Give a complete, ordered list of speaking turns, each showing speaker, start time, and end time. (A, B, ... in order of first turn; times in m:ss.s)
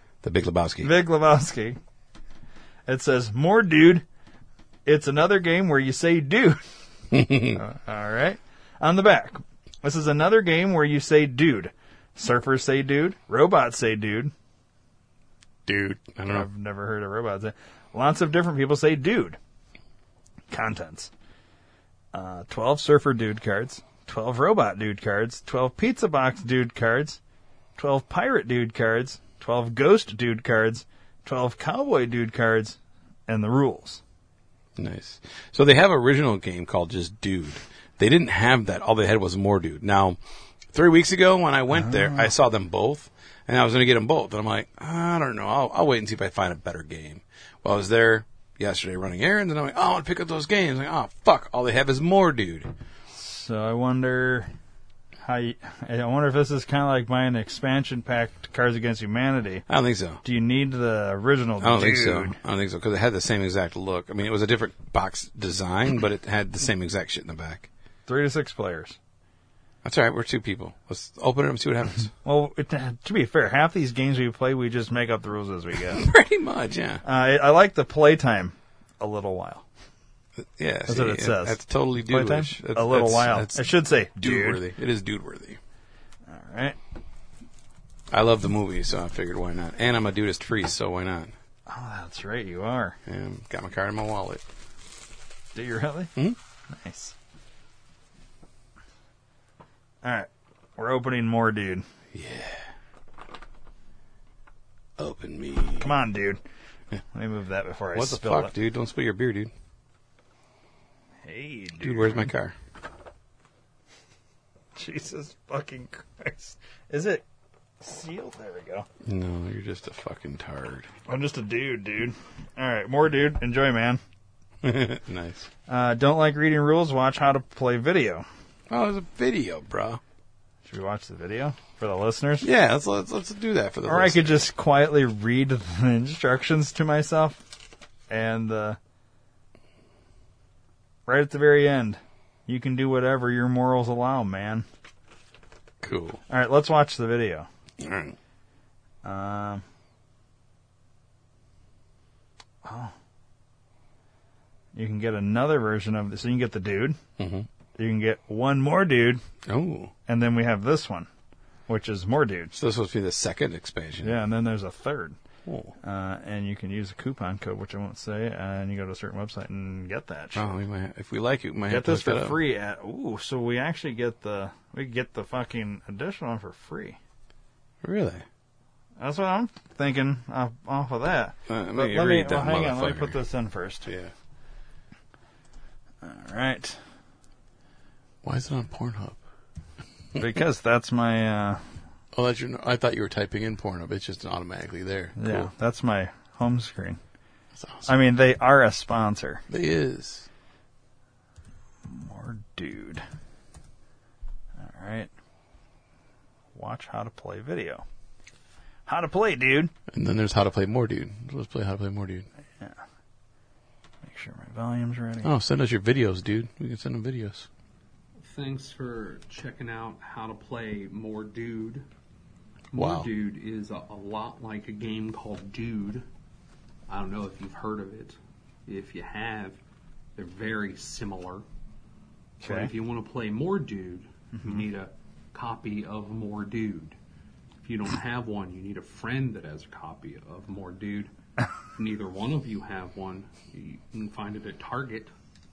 0:00.2-0:00.9 A
0:00.8-0:01.8 B
0:02.9-0:04.0 B
0:04.9-0:06.6 B
0:07.1-0:07.6 A
0:07.4-0:14.3 B
0:15.7-0:16.5 A
0:16.3-0:19.4 B
0:20.5-0:21.1 B
0:22.1-0:27.2 B
0:27.8-0:34.0 B
0:34.8-0:40.2 A
0:40.7-0:52.7 A
0:41.8-0:42.3 B
0:53.1-0:54.5 B
0:55.2-0:59.6 B
0:59.7-1:00.2 A
1:00.2-1:02.4 B
1:01.6-1:07.7 A
1:08.1-1:09.0 B
1:09.8-1:12.1 A
1:12.2-1:16.0 B
1:15.9-1:17.0 A
1:17.0-1:19.7 B
1:20.4-1:25.6 A
1:20.9-1:24.6 B
1:26.3-1:26.8 B
1:28.1-1:31.3 A
1:31.7-1:33.0 B
1:33.1-1:34.4 A
1:35.6-1:36.1 B
1:36.7-1:37.2 B
1:40.0-1:41.8 B
1:42.1-1:42.7 A
1:45.0-1:45.9 A
1:45.8-1:46.4 B
1:47.1-1:48.5 B
1:47.9-1:49.5 A
1:51.2-1:52.3 B
1:51.8-1:52.6 A
1:54.8-1:57.2 B
1:57.8-1:58.9 B
1:59.0-2:00.9 A
2:01.1-2:04.0 B
2:04.6-2:05.5 A
2:05.7-2:08.3 B
2:08.7-2:10.0 A
2:10.7-2:12.5 B
2:12.4-2:14.5 A
2:13.8-2:17.4 B
2:18.1-2:18.8 B
2:21.1-2:24.7 B
2:25.8-2:26.2 A
2:26.3-2:27.5 B
2:27.8-2:28.2 A
2:29.0-2:29.6 B
2:32.6-2:32.9 B
2:34.8-2:37.0 B
2:37.2-2:37.5 A
2:37.8-2:39.2 B
2:39.5-2:39.9 A
2:40.1-2:41.1 B
2:41.7-2:42.6 B
2:42.6-2:44.2 A
2:44.0-2:45.2 B
2:45.5-2:45.7 A
2:45.8-2:50.6 B
2:50.4-2:52.4 A
2:51.7-2:57.0 B
2:57.8-2:58.3 A
2:59.0-3:03.9 B
3:01.5-3:03.2 A
3:03.9-3:04.1 A
3:06.0-3:06.8 B
3:08.2-3:09.2 A
3:10.2-3:11.6 B
3:12.2-3:15.5 A
3:15.2-3:17.0 B
3:17.6-3:17.9 A
3:17.9-3:19.4 B
3:19.5-3:20.3 A
3:21.9-3:23.0 B
3:24.6-3:25.1 B
3:26.6-3:27.8 B
3:28.9-3:29.7 B
3:29.9-3:32.3 A
3:34.0-3:35.3 B
3:35.2-3:37.5 A
3:38.2-3:41.8 C
3:42.7-3:46.0 C
3:42.7-3:43.1 A
3:46.9-3:49.6 C
3:50.2-3:51.4 C
3:52.4-3:52.7 B
3:52.4-3:57.0 C
3:54.3-3:54.6 B
3:57.6-4:01.1 C
4:01.8-4:05.1 C